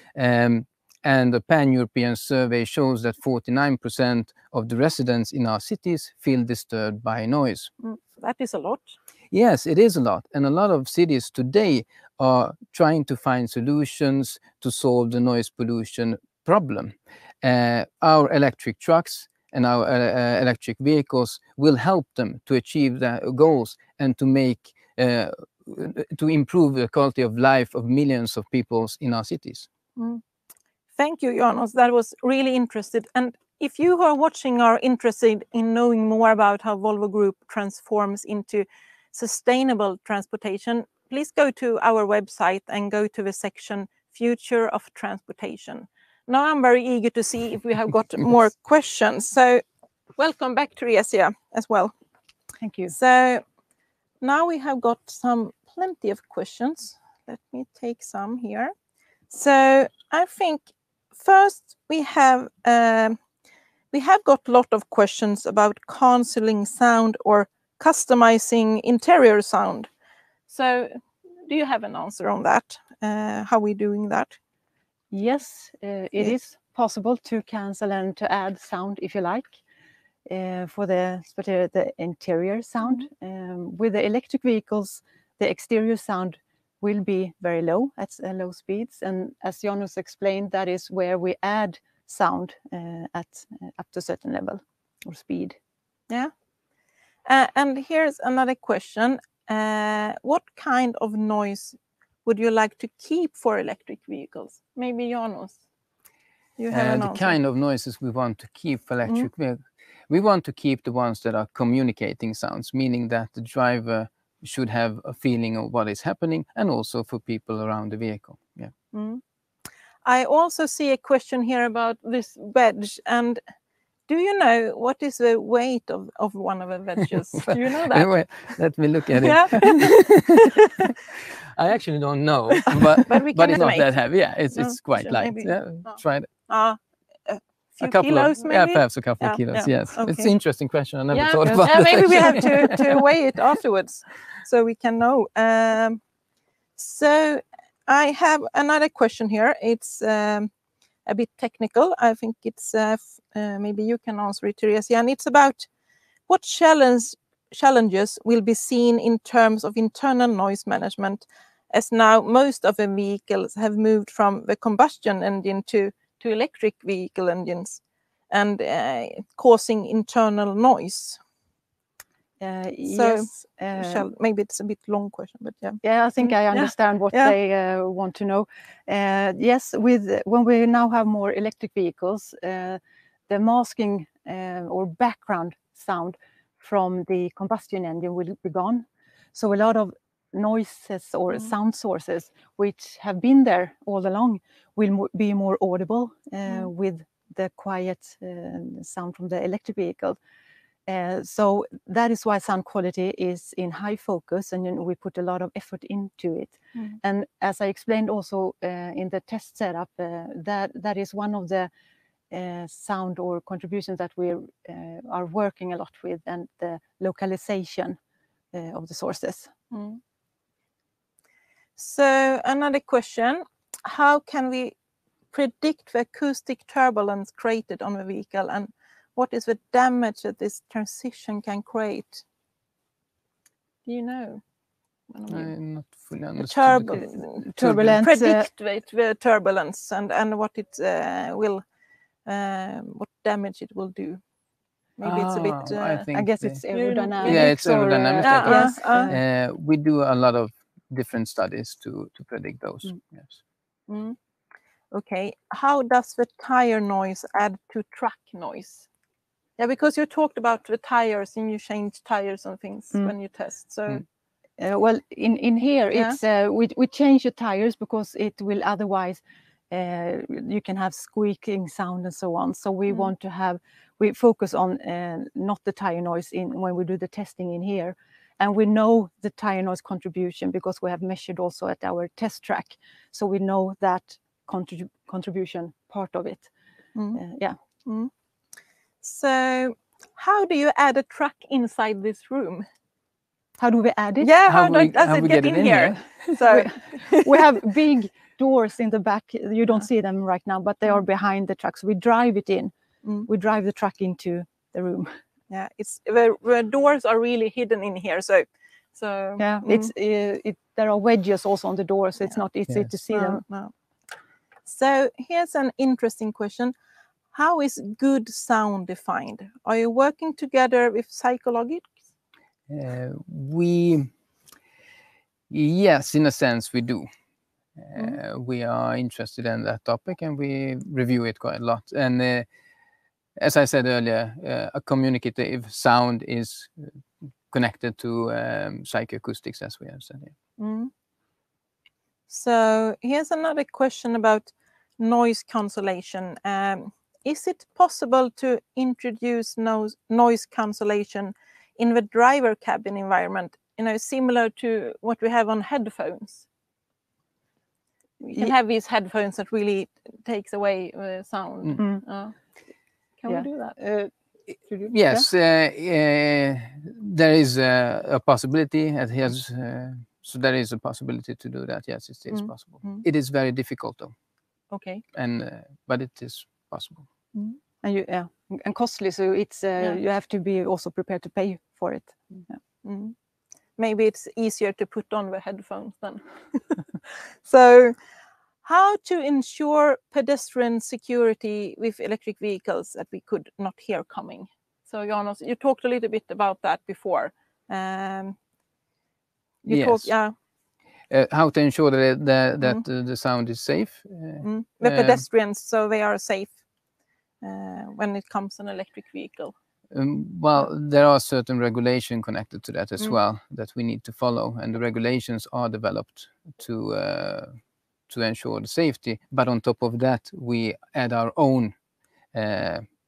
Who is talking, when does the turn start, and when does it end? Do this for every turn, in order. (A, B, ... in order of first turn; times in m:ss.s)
0:00.1-0:07.7 A
0:07.8-0:09.0 B
0:09.3-0:29.7 A
0:30.0-0:30.2 B
0:30.9-0:49.6 B
0:50.2-0:51.9 B
0:52.6-0:52.9 C
0:52.9-0:53.4 B
0:54.2-0:58.7 B
0:59.3-1:03.2 B
1:03.9-1:09.9 B
1:10.5-1:14.4 B
1:15.1-1:19.6 C
1:20.3-1:35.6 C
1:37.2-1:45.6 B
1:46.6-1:47.3 B
1:46.7-1:58.7 A
1:58.9-1:59.2 B
2:00.0-2:03.4 B
2:04.1-2:08.4 B
2:07.4-2:10.5 A
2:09.2-2:10.6 B
2:11.5-2:16.3 A
2:12.7-2:20.3 B
2:17.8-2:23.0 A
2:21.1-2:26.0 B
2:26.8-2:30.5 B
2:31.0-2:35.7 B
2:36.3-2:51.2 B
2:52.4-2:54.0 C
2:52.9-2:57.3 B
2:55.8-3:20.2 C
3:20.9-3:31.7 C
3:32.3-3:38.0 C
3:38.5-3:39.5 C
3:39.7-3:40.0 B
3:41.8-3:44.7 B
3:45.3-3:52.2 B
3:53.8-3:54.4 B
3:55.1-3:55.5 B
3:55.3-3:57.0 A
3:56.4-4:01.6 B
3:57.2-3:58.5 C
3:57.6-3:58.0 A
4:02.2-4:04.2 B
4:05.0-4:06.1 B
4:05.0-4:06.6 A
4:06.1-4:09.2 C
4:06.7-4:07.5 B
4:07.2-4:13.4 A
4:08.2-4:09.1 B
4:13.9-4:14.2 B
4:14.9-4:18.9 B
4:19.6-4:24.0 B
4:24.6-4:46.5 C
4:46.9-4:47.2 B
4:47.1-4:47.6 C
4:49.0-4:52.7 B
4:53.6-4:54.3 C
4:54.2-4:57.6 B
4:54.4-4:56.3 A
4:56.5-5:02.7 C
5:03.3-5:05.1 C
5:05.5-5:09.9 B
5:09.4-5:13.4 C
5:13.1-5:13.7 B
5:14.6-5:16.7 B
5:17.3-5:21.9 B
5:22.7-5:24.1 A
5:25.5-5:27.1 A
5:27.8-5:32.5 A
5:33.4-5:36.9 A
5:37.5-5:40.3 A
5:40.6-5:40.9 B
5:42.3-5:56.4 B
5:58.2-5:58.5 C
5:58.3-6:02.3 B
6:01.8-6:02.0 C
6:03.2-6:03.9 B
6:03.3-6:04.1 C
6:04.8-6:14.1 A
6:12.3-6:13.0 B
6:14.7-6:15.0 B
6:15.1-6:17.1 A
6:17.8-6:22.5 C
6:22.8-6:23.1 B
6:23.8-6:26.8 B
6:27.4-6:28.0 B
6:28.6-6:38.4 B
6:39.6-6:40.3 B
6:39.6-6:40.1 A
6:41.1-6:45.2 A
6:44.4-6:46.6 B
6:47.4-6:49.5 B
6:49.9-6:57.5 A
6:58.1-7:01.7 A
7:02.3-7:02.8 A